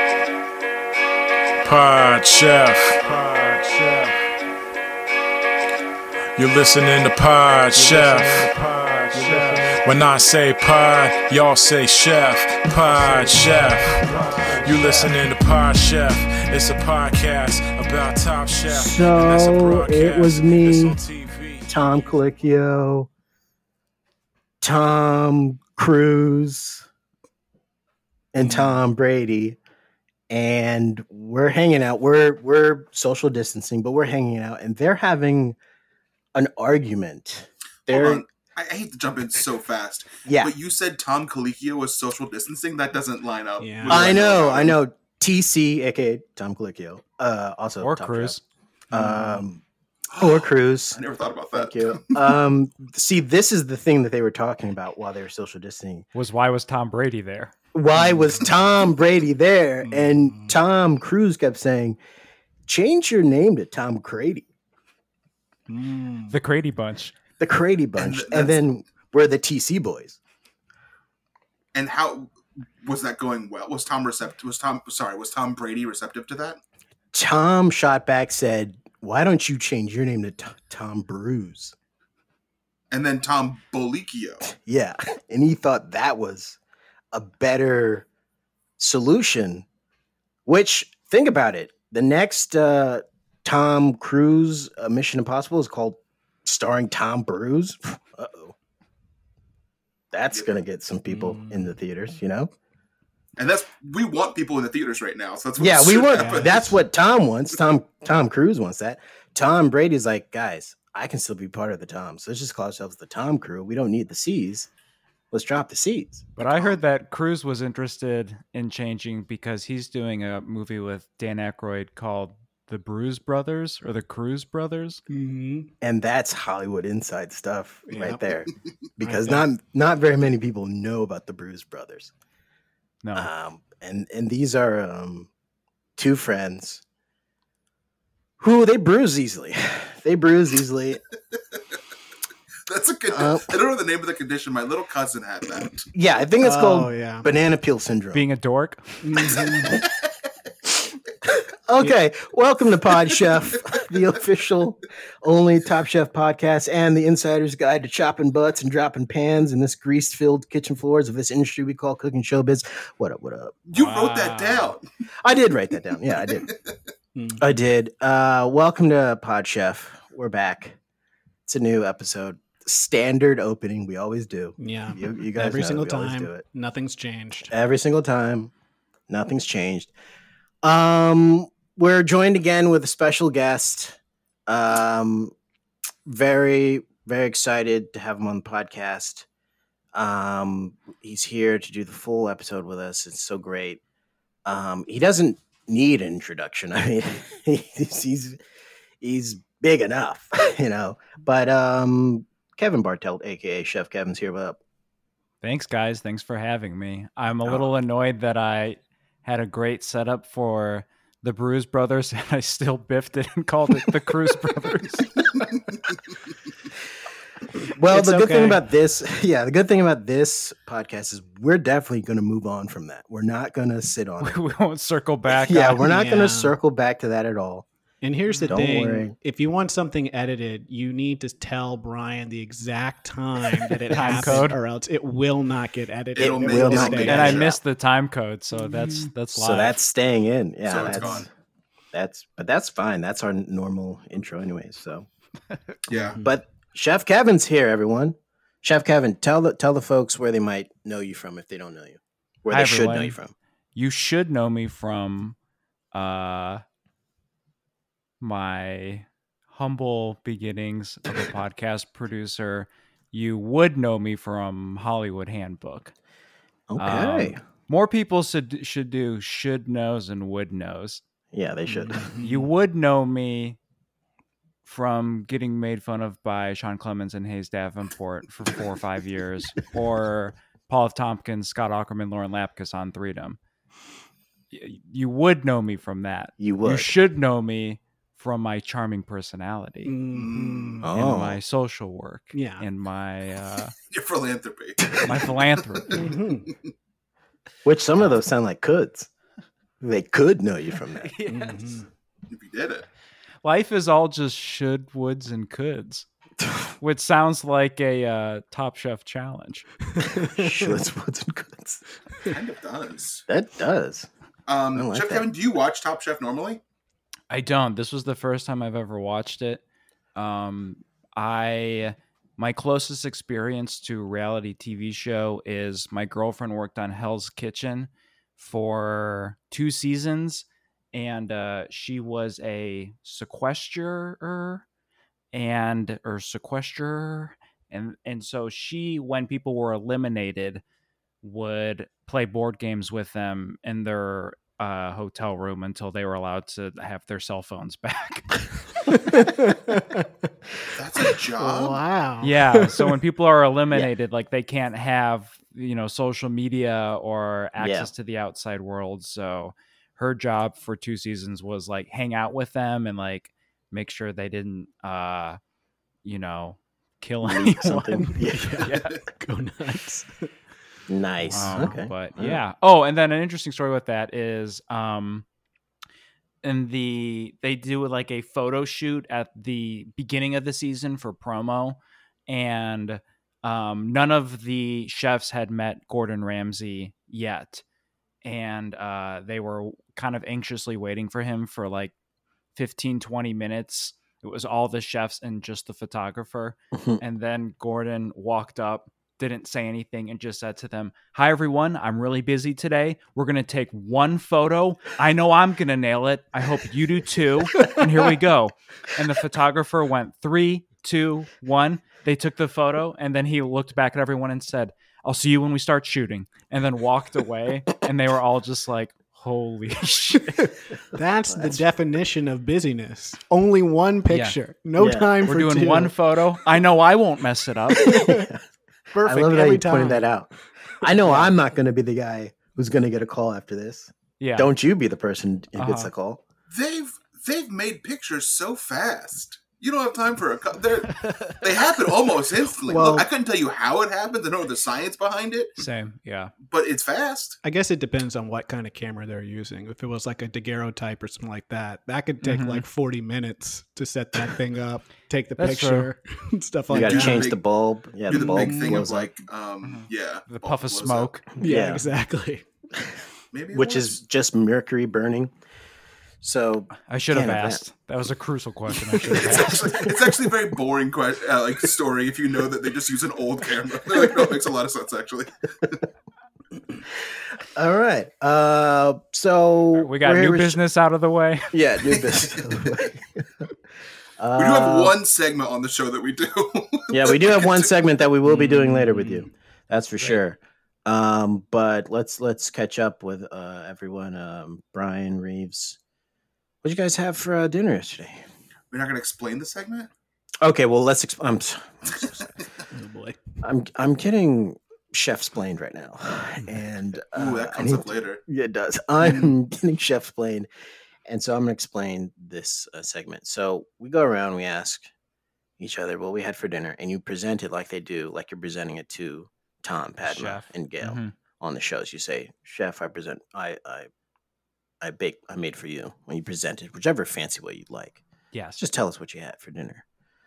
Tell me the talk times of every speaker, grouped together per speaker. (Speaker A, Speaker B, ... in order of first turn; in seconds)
Speaker A: 1.6-4.3, 6.4-21.7
Speaker B: 7.9-8.2, 18.7-21.0, 21.7-23.1, 24.6-26.9, 28.3-29.6, 30.3-35.6, 36.4-38.2, 40.2-40.5, 43.9-48.4, 48.9-49.6, 50.2-51.0, 51.5-56.1, 57.7-62.0, 62.7-64.5, 67.4-70.2, 77.1-81.7, 84.5-86.6, 87.1-88.1, 88.8-89.7, 90.5-98.5, 100.1-102.5, 105.6-114.7, 115.3-116.3, 125.8-132.1, 133.2-135.3, 136.0-136.8, 138.4-141.0, 143.1-143.5, 145.9-148.2, 150.7-150.9, 151.7-163.6, 165.2-166.5, 167.4-170.8, 171.5-176.4, 177.5-178.5, 179.1-179.9, 180.6-185.3, 186.1-189.3, 189.9-193.8, 194.4-198.4, 199.0-204.6, 207.4-207.7, 217.7-224.4, 225.3-227.7, 228.5-229.2, 234.0-234.5, 236.2-237.6, 239.4-241.3, 241.9-245.1, 246.2-253.3, 266.7-267.4, 271.3-272.1, 286.4-286.9, 290.8-291.4, 297.6-299.1, 299.8-301.1, 310.3-311.8, 313.3-314.1, 314.8-315.3, 357.6-357.9, 367.2-368.7, 370.9-372.4, 396.7-397.0, 421.3-421.7, 424.8-425.1, 427.8-428.4, 428.9-430.3, 430.8-436.2, 456.7-459.1, 461.4-461.9, 463.5-465.3, 466.2-467.6, 477.4-480.6, 481.5-483.5, 484.2-485.0, 486.9-495.8, 496.6-498.2, 500.4-502.3, 503.4-510.5, 511.1-514.9, 515.6-523.9, 524.8-528.0, 528.6-529.8
Speaker C: 14.1-14.6, 28.4-28.8, 43.6-44.2, 48.9-49.5, 58.0-58.5, 59.9-60.6, 65.7-66.3, 101.1-101.7, 106.2-106.8, 125.1-125.7, 127.9-128.2, 129.0-129.5, 146.4-147.3, 149.0-149.8, 167.2-167.4, 174.6-177.5, 217.9-218.6, 225.7-226.6, 228.0-237.4, 238.6-239.1, 245.9-246.3, 271.7-272.5, 289.9-290.9, 292.3-292.6, 295.9-296.5, 301.3-301.9, 309.9-310.8, 348.9-350.1, 351.4-352.9, 368.2-370.3, 371.2-371.7, 420.4-425.9, 427.8-428.3, 428.9-430.1, 430.9-431.3, 442.7-443.1, 447.4-457.3, 458.1-458.9, 461.4-462.4, 468.9-469.9, 488.2-489.3, 502.7-503.2, 509.0-509.3
Speaker D: 37.9-44.8, 50.1-52.3, 68.0-68.6, 71.7-76.6, 82.9-84.4, 103.4-106.7, 142.7-145.9, 163.7-164.8, 236.2-237.6, 240.7-241.3, 245.9-246.2, 290.1-290.8, 293.9-296.1, 302.3-302.9, 312.3-313.2, 314.5-316.6, 350.7-351.8, 436.5-445.6, 446.4-447.4, 456.8-457.4, 458.1-461.2, 463.3-464.0, 469.4-475.8, 481.9-482.4, 484.4-487.7, 498.7-499.9, 507.1-508.2
Speaker E: 47.8-48.4, 56.1-57.5, 66.3-67.1, 116.4-125.0, 133.0-133.3, 148.1-149.0, 163.7-164.8, 205.4-215.2, 224.2-225.8, 228.3-228.6, 233.9-234.6, 237.1-239.8, 252.5-253.2, 253.8-255.4, 255.9-256.6, 258.2-265.9, 266.8-271.0, 272.2-273.6, 274.6-283.4, 284.5-289.9, 290.9-293.7, 295.0-295.9, 301.0-301.8, 303.4-306.1, 306.8-309.7, 317.3-319.6, 320.1-334.6, 335.3-340.6, 341.2-348.4, 352.2-365.4, 366.0-369.0, 371.3-375.2, 376.4-387.6, 388.2-391.9, 392.6-420.5, 424.1-424.4, 425.3-428.0, 434.2-434.5, 435.6-435.9, 445.6-446.3, 452.2-452.6, 455.4-455.9, 459.6-461.2, 466.9-469.7, 479.8-481.5, 520.0-521.1, 528.3-528.6